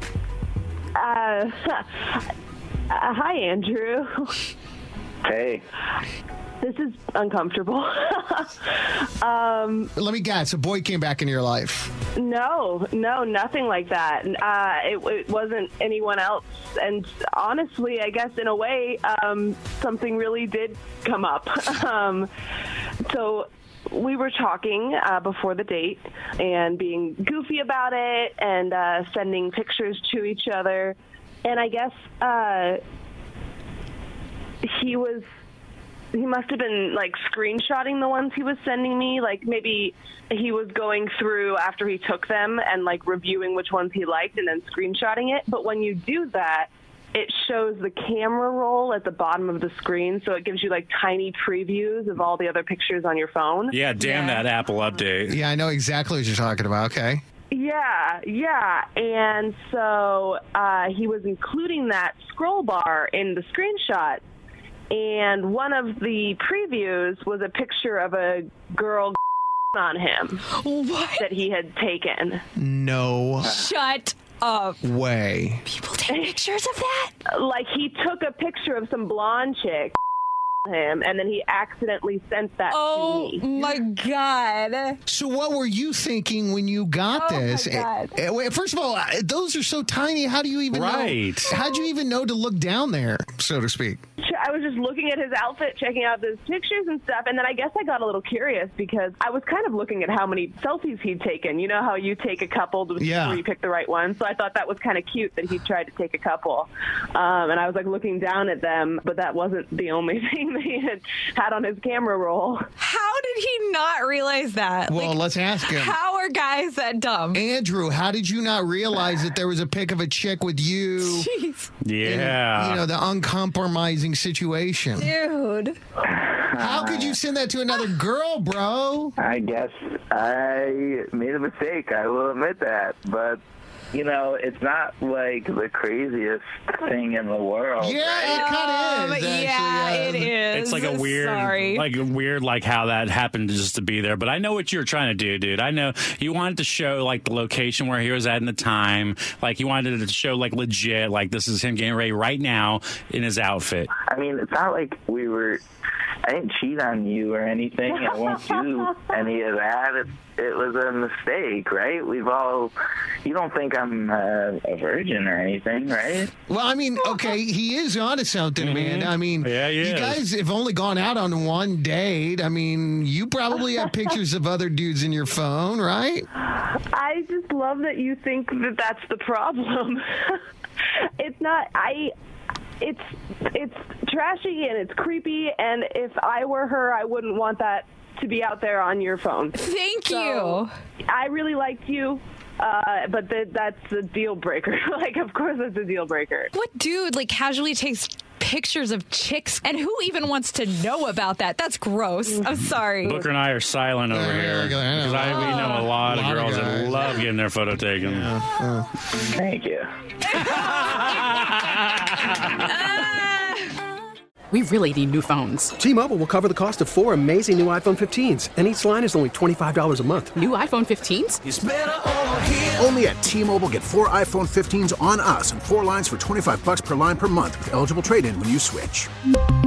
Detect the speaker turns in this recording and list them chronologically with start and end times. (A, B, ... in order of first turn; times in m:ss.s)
0:00.9-0:02.2 A
0:02.9-0:04.4 A
0:05.2-0:05.6 B
0:06.6-0:09.9 A
0:10.0-0:11.9 C
0:12.2-0:22.3 A
0:23.0-0:32.8 A
0:34.6-0:35.2 A
0:36.1-0:54.1 A
0:53.7-0:55.3 D
0:55.3-0:57.2 C
0:57.5-1:04.2 A
1:04.9-1:09.2 A
1:09.7-1:10.4 A
1:10.5-1:11.2 E
1:11.2-1:12.4 A
1:12.6-1:13.6 C
1:13.4-1:14.8 E
1:14.8-1:15.6 C
1:15.7-1:17.1 E
1:17.3-1:20.0 A
1:20.7-1:23.6 A
1:22.7-1:25.0 E
1:25.1-1:34.0 C
1:27.1-1:28.1 E
1:30.7-1:31.5 D
1:34.2-1:52.6 A
1:43.0-1:43.4 C
1:52.8-1:57.4 E
1:54.9-1:56.0 C
1:57.3-2:01.3 C
2:01.0-2:01.7 E
2:01.8-2:02.8 D
2:02.0-2:05.1 C
2:05.0-2:05.8 E
2:06.0-2:07.2 B
2:06.6-2:09.1 C
2:09.2-2:13.4 B
2:13.9-2:18.5 B
2:17.8-2:20.3 C
2:18.3-2:21.9 E
2:20.5-2:33.9 D
2:34.1-2:35.6 B
2:36.3-2:42.7 B
2:43.2-2:46.3 B
2:46.5-2:56.3 C
2:48.6-2:50.2 D
2:56.6-3:00.4 A
3:01.2-3:02.1 A
3:02.8-3:09.5 A
3:09.6-3:10.7 E
3:10.0-3:10.6 A
3:11.1-3:16.5 A
3:16.5-3:23.2 E
3:23.0-3:28.3 D
3:24.1-3:27.2 C
3:25.4-3:25.8 E
3:28.0-3:28.9 C
3:29.3-3:29.9 B
3:30.3-3:31.1 E
3:30.5-3:32.6 D
3:32.7-3:33.6 E
3:34.5-3:35.7 F
3:35.8-3:40.4 G
3:40.3-3:41.4 F
3:41.4-3:49.1 H